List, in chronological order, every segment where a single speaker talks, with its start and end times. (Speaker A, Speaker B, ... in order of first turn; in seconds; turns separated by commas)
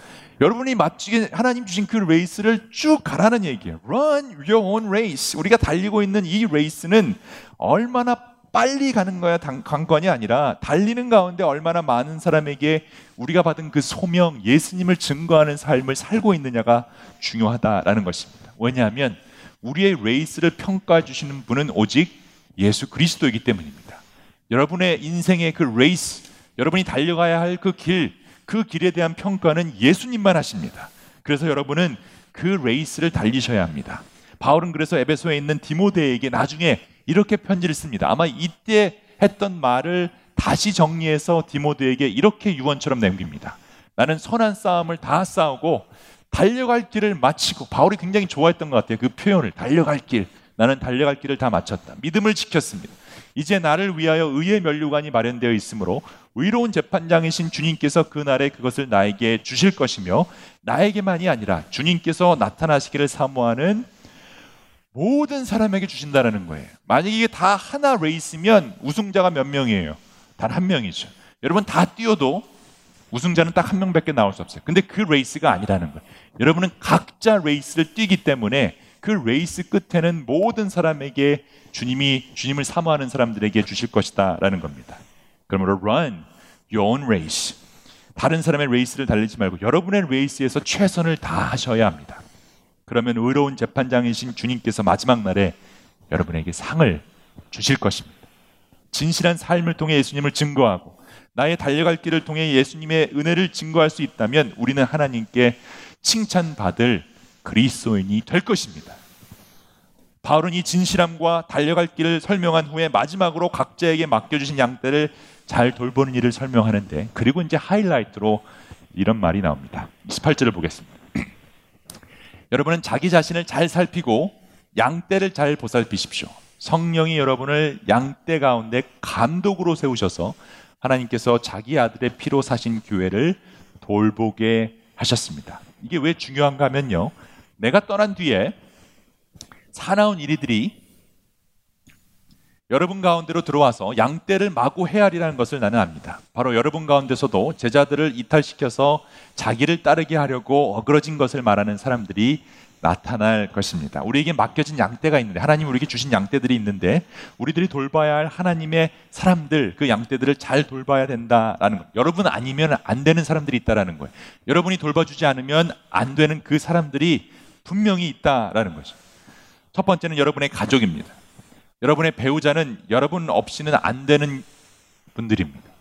Speaker A: 0.4-63.9, Speaker A: 64.9-72.5, Speaker A: 73.1-87.6, Speaker A: 88.2-92.2, Speaker A: 92.9-95.5, Speaker A: 96.1-98.2, Speaker A: 98.9-109.0, Speaker A: 110.2-121.2, Speaker A: 122.5-138.5, Speaker A: 139.7-140.8, Speaker A: 142.7-168.9, Speaker A: 169.7-171.1, Speaker A: 171.8-174.4, Speaker A: 175.1-175.7